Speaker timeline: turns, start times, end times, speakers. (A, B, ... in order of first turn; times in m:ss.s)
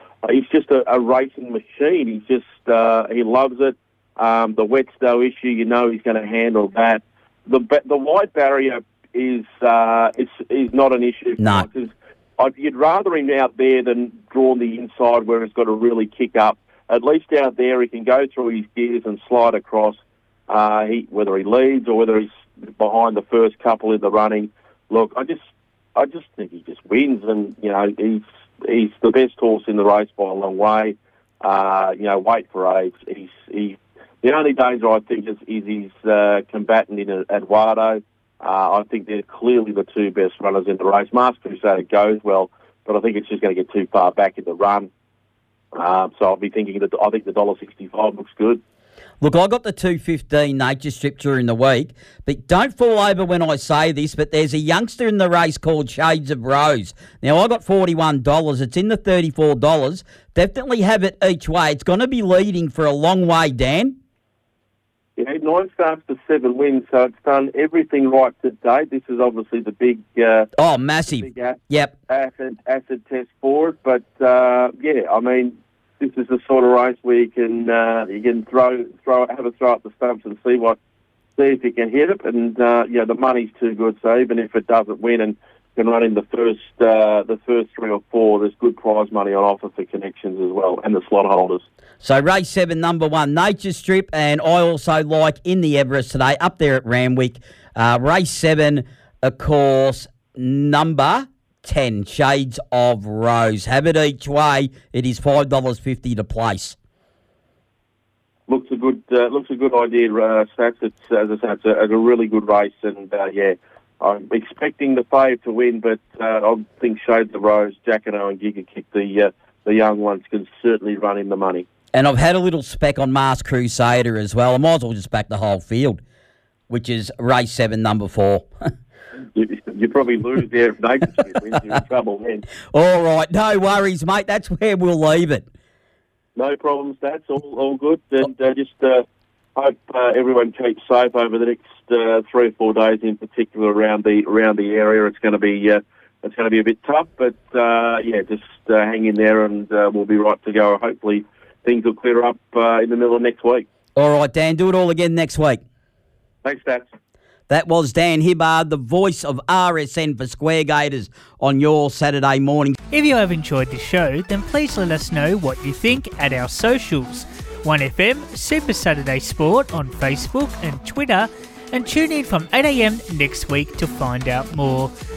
0:00.2-0:20.0 A
0:11.4-0:11.7 B
0:20.5-0:25.4 A
0:26.0-0:44.9 A
0:45.7-0:48.6 A
0:49.2-1:04.0 B
1:05.2-1:10.5 A
1:10.6-1:11.9 B
1:11.1-1:20.8 A
1:21.4-1:31.6 A
1:32.0-1:46.8 B
1:48.5-2:01.6 A
2:01.9-2:06.0 B
2:06.7-2:08.5 B
2:09.3-2:12.4 A
2:12.7-2:15.4 B
2:16.4-2:19.0 A
2:19.6-2:33.6 A
2:34.0-2:35.6 B
2:36.4-2:36.9 A
2:37.5-2:42.8 B
2:42.9-2:54.9 C